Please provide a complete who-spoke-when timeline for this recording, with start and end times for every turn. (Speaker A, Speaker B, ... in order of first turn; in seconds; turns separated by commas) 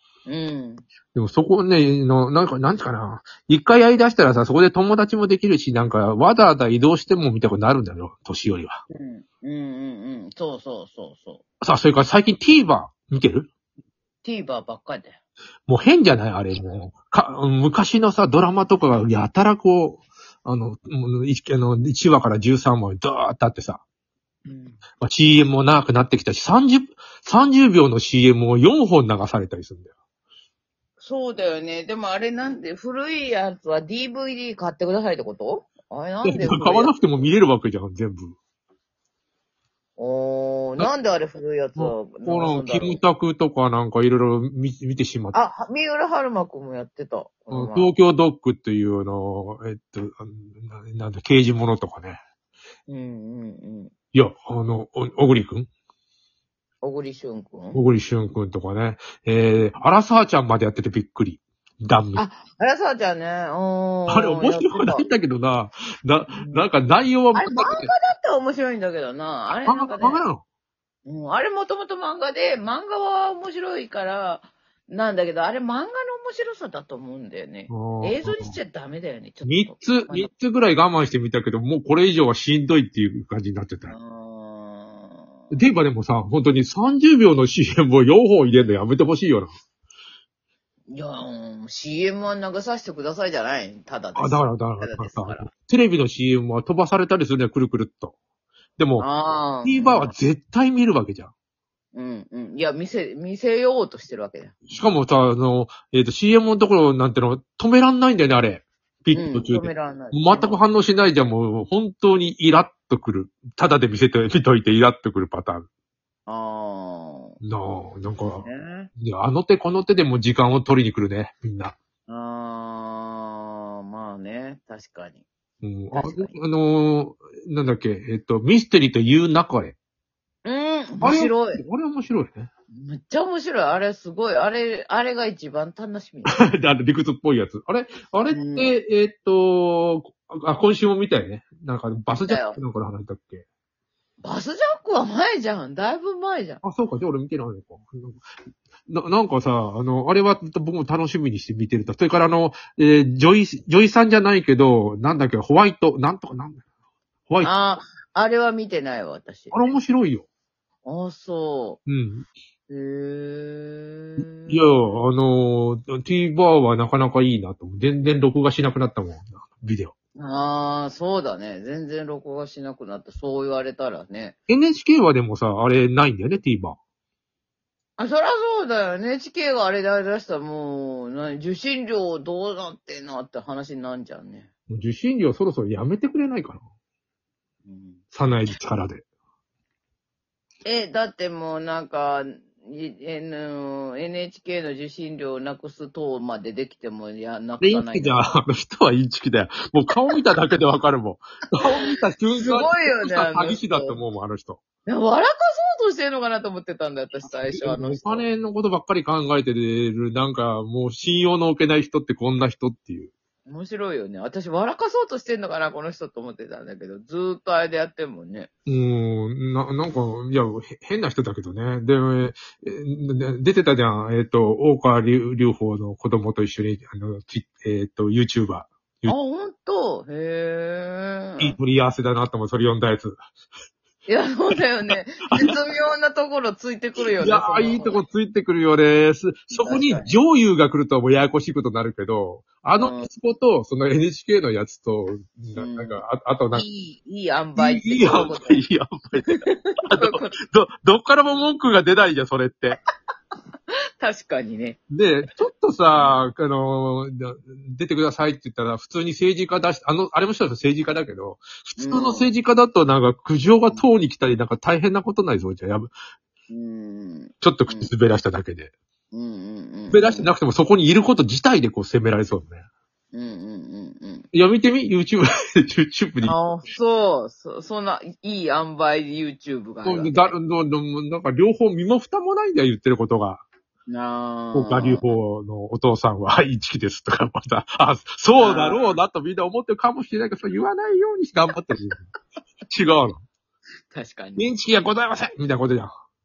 Speaker A: 0.3-0.9, Speaker B: 1.1-8.8, Speaker A: 8.9-11.4, Speaker B: 11.6-13.5, Speaker A: 14.2-15.2, Speaker B: 15.7-23.8, Speaker A: 24.4-24.8, Speaker B: 25.0-29.9, Speaker A: 31.0-37.2, Speaker B: 36.2-38.4, Speaker A: 40.0-43.0, Speaker B: 41.8-45.4, Speaker A: 45.3-47.9, Speaker B: 47.5-52.2, Speaker A: 52.9-53.9, Speaker B: 54.1-55.7, Speaker A: 56.8-57.8, Speaker B: 57.7-62.2, Speaker A: 62.1-65.0, Speaker B: 64.1-67.9, Speaker A: 66.3-66.7, Speaker A: 67.3-70.2, Speaker B: 69.7-70.4, Speaker A: 71.1-80.3, Speaker B: 77.7-78.6, Speaker B: 79.4-83.9, Speaker A: 83.9-85.5, Speaker B: 85.5-89.5, Speaker A: 90.9-95.5, Speaker B: 94.2-98.2, Speaker B: 98.8-99.1, Speaker A: 99.0-100.1, Speaker B: 99.6-101.3, Speaker A: 101.9-104.6, Speaker B: 104.7-115.7, Speaker A: 109.1-110.6, Speaker A: 116.3-117.4, Speaker B: 117.4-121.8, Speaker A: 118.4-118.9, Speaker A: 122.1-125.2, Speaker B: 125.6-129.8, Speaker A: 125.9-126.3, Speaker A: 130.4-131.6, Speaker B: 131.0-132.5, Speaker A: 132.7-136.4, Speaker B: 136.2-143.4, Speaker A: 138.3-138.7, Speaker A: 142.3-142.6, Speaker A: 144.2-146.6, Speaker B: 146.6-148.2, Speaker B: 148.9-156.6, Speaker A: 157.4-159.7, Speaker B: 159.5-160.3, Speaker A: 160.8-161.8, Speaker B: 161.9-162.3, Speaker A: 162.7-165.0, Speaker B: 164.2-169.9, Speaker A: 170.2-174.4, Speaker B: 174.5-176.8, Speaker A: 178.0-184.5, Speaker B: 184.7-186.6, Speaker A: 187.7-188.0, Speaker B: 188.1-189.0, Speaker A: 190.7-198.3, Speaker B: 197.6-204.6, Speaker A: 201.6-204.0, Speaker A: 204.9-208.3, Speaker B: 207.4-213.1, Speaker A: 213.5-218.5, Speaker B: 218.7-229.2, Speaker A: 229.1-231.6, Speaker B: 231.4-233.2, Speaker A: 234.1-238.0, Speaker B: 234.9-235.5, Speaker B: 237.2-246.7, Speaker A: 239.5-240.1, Speaker A: 242.8-243.1, Speaker A: 245.6-248.6, Speaker B: 247.6-252.8, Speaker A: 249.4-250.3, Speaker A: 254.0-254.8, Speaker B: 254.9-265.9, Speaker A: 261.8-262.3, Speaker A: 266.5-267.9, Speaker B: 267.4-268.7, Speaker A: 269.1-270.3, Speaker B: 269.9-272.6, Speaker A: 273.1-274.3, Speaker B: 274.3-276.4, Speaker A: 276.2-280.4, Speaker B: 279.8-283.4, Speaker A: 283.9-285.1, Speaker B: 284.5-292.1, Speaker A: 288.4-288.9, Speaker B: 292.7-293.2, Speaker A: 293.9-294.5, Speaker B: 294.4-295.9